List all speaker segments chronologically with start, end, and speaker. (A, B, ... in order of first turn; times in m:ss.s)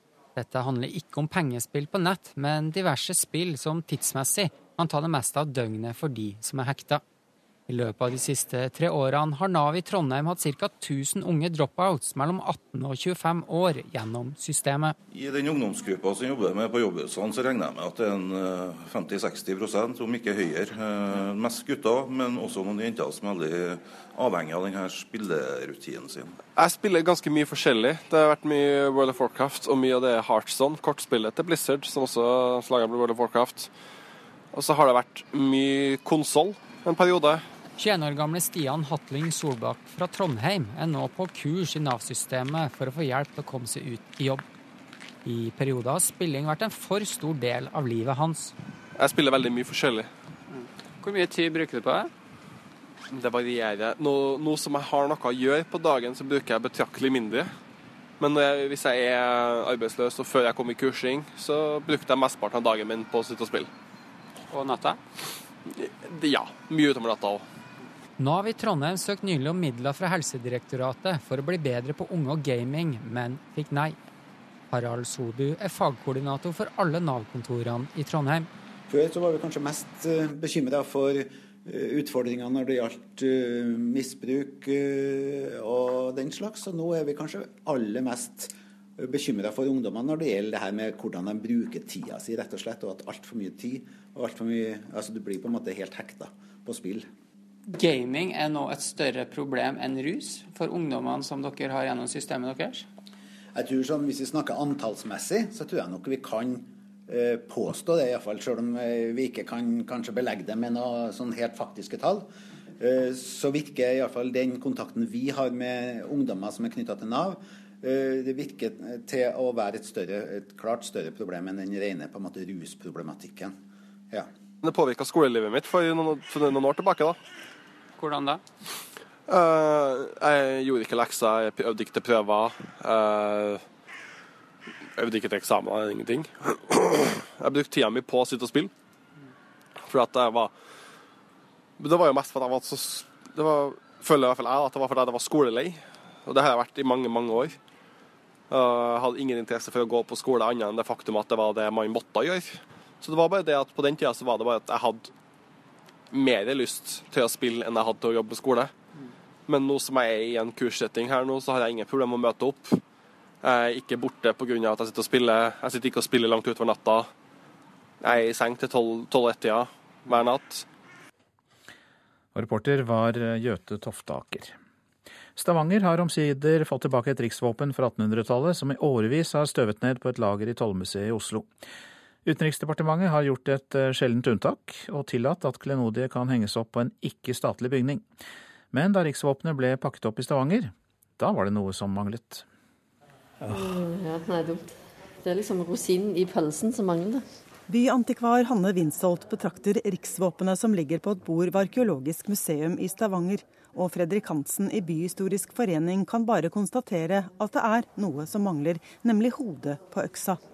0:00.4-0:07.0 A
0:07.7-0:15.0 A
0:15.1-0:26.4 B
0:26.6-0:33.7 C
0:34.5-0:37.4 C
0:37.8-0:44.4 A
0:45.2-0:48.5 A
0:49.0-0:50.1 C
0:51.0-0:52.1 A
0:53.1-0:57.5 C
0:58.2-1:03.7 C
1:04.5-1:05.0 A
1:05.7-1:07.4 C
1:08.2-1:14.0 A
1:14.7-1:18.5 A
1:18.9-1:37.1 D
1:43.5-1:52.3 D
1:52.8-2:03.6 D
2:04.6-2:07.2 C
2:08.0-2:08.4 A
2:09.3-2:13.6 C
2:15.0-2:18.7 C
2:19.8-2:20.5 C
2:21.8-2:27.6 C
2:28.5-2:35.1 C
2:36.1-2:38.7 C
2:39.5-2:42.8 C
2:43.4-2:47.1 C
2:48.0-2:50.7 C
2:52.4-2:54.5 E
2:55.4-3:01.4 E
3:02.3-3:08.0 E
3:08.7-3:12.4 E
3:13.4-3:14.7 F
3:15.2-3:17.2 F
3:17.7-3:30.4 G